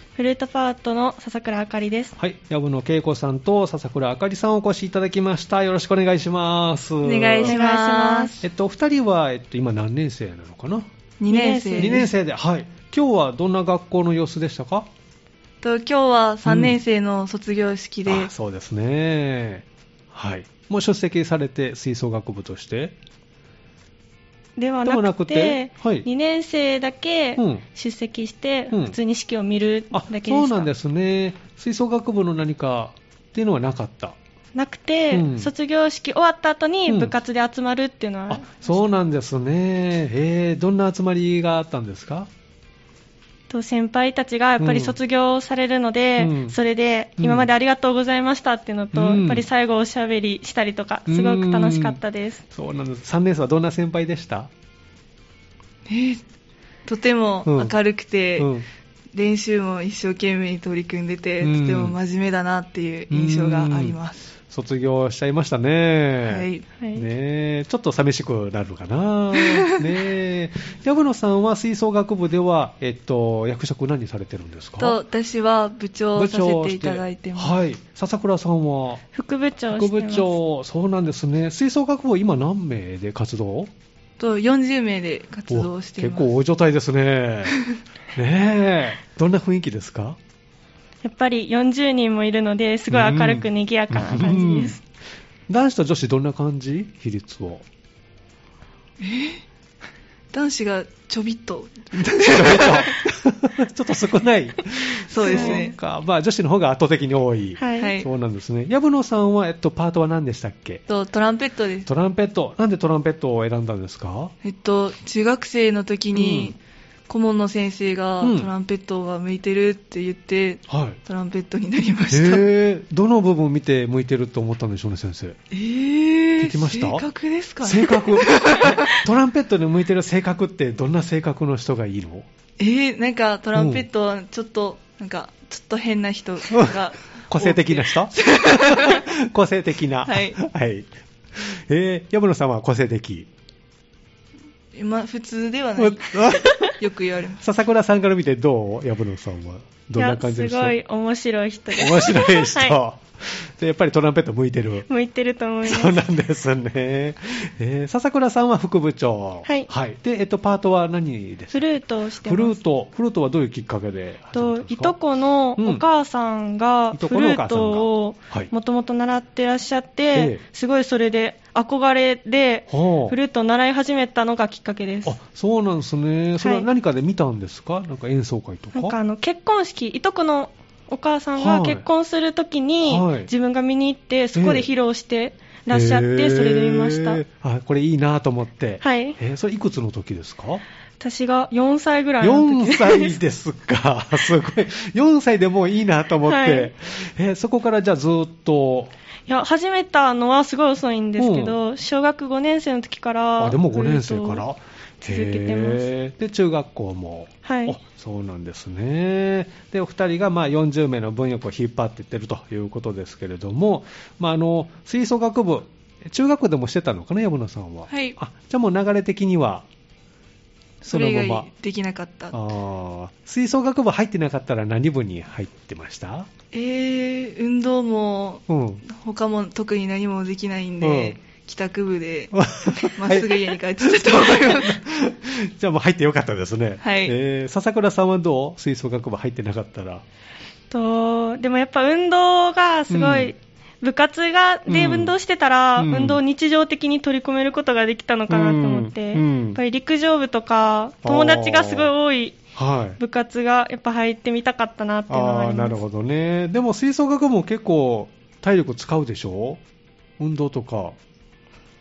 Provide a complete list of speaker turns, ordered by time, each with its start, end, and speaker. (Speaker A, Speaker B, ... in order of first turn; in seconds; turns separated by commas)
Speaker A: 0.1-2.1, Speaker B: 2.2-7.6, Speaker C: 7.0-8.4, Speaker A: 7.5-8.4, Speaker B: 8.4-10.9, Speaker C: 11.2-12.1, Speaker A: 11.3-12.0, Speaker B: 11.8-14.9, Speaker C: 15.6-18.3, Speaker B: 16.4-16.8, Speaker B: 18.1-22.9, Speaker A: 24.6-30.7, Speaker B: 24.8-26.1, Speaker B: 27.4-27.6, Speaker B: 28.7-28.9, Speaker B: 29.9-34.1, Speaker A: 34.5-38.7, Speaker B: 35.1-35.5, Speaker B: 36.9-37.1, Speaker B: 38.3-42.3, Speaker A: 43.5-52.4, Speaker B: 44.6-45.0, Speaker B: 46.2-46.5, Speaker B: 47.2-47.5, Speaker B: 48.9-49.5, Speaker B: 51.1-54.5, Speaker C: 55.9-56.2, Speaker C: 56.8-58.5, Speaker B: 57.5-57.7, Speaker B: 58.4-58.6, Speaker C: 59.1-64.3, Speaker B: 61.4-62.0, Speaker B: 63.1-64.0, Speaker B: 64.5-75.0, Speaker C: 66.2-66.7, Speaker A: 66.8-67.1, Speaker C: 69.3-69.8, Speaker C: 74.8-77.5, Speaker B: 76.1-79.0, Speaker A: 79.1-80.3, Speaker B: 79.7-83.7, Speaker C: 84.2-86.3, Speaker B: 85.5-87.6, Speaker B: 88.1-90.2, Speaker A: 91.0-94.8, Speaker B: 92.9-94.8, Speaker B: 95.5-97.6, Speaker C: 99.0-99.4, Speaker C: 100.3-103.0, Speaker B: 101.9-110.8, Speaker C: 105.1-105.7, Speaker A: 105.2-105.6, Speaker A: 107.6-108.0, Speaker C: 107.8-108.1, Speaker C: 110.9-111.9, Speaker B: 111.8-114.3, Speaker C: 114.4-122.5, Speaker B: 116.1-116.5, Speaker B: 118.2-118.5, Speaker B: 120.7-121.0, Speaker B: 122.1-125.4, Speaker C: 125.5-128.9, Speaker B: 126.4-127.0, Speaker B: 127.6-132.3, Speaker C: 132.6-139.0, Speaker B: 133.5-133.8, Speaker B: 136.5-143.3, Speaker C: 140.1-140.4, Speaker C: 144.7-147.4, Speaker B: 145.8-146.8, Speaker B: 147.4-150.8, Speaker A: 150.0-152.8, Speaker B: 151.7-154.9, Speaker A: 154.9-156.0, Speaker B: 155.6-161.6, Speaker A: 161.5-162.6, Speaker B: 162.2-164.9, Speaker A: 164.3-175.1, Speaker B: 165.6-165.8, Speaker B: 166.9-168.5, Speaker B: 170.1-170.4, Speaker B: 172.7-173.2, Speaker B: 175.0-179.0, Speaker A: 176.4-176.7, Speaker A: 178.7-187.2, Speaker B: 181.4-181.8, Speaker B: 182.8-183.3, Speaker B: 184.3-184.7, Speaker B: 185.7-190.6, Speaker A: 188.8-189.2, Speaker A: 191.0-193.2, Speaker B: 192.2-198.9, Speaker A: 196.3-196.7, Speaker A: 199.3-204.4, Speaker B: 201.2-201.6, Speaker B: 203.4-219.6, Speaker A: 205.0-205.9, Speaker A: 207.4-207.8, Speaker C: 217.9-218.2, Speaker C: 220.8-222.3, Speaker B: 220.8-221.5, Speaker B: 222.3-226.3, Speaker C: 226.5-234.8, Speaker B: 228.5-228.8, Speaker B: 230.8-231.2, Speaker B: 232.3-240.0, Speaker C: 236.8-237.2, Speaker A: 240.7-252.4, Speaker B: 242.9-243.3, Speaker B: 244.7-245.1, Speaker B: 245.8-246.2, Speaker B: 248.3-249.6, Speaker B: 251.0-251.9, Speaker B: 252.5-253.0, Speaker A: 253.0-255.8, Speaker B: 255.1-259.6, Speaker B: 260.2-261.0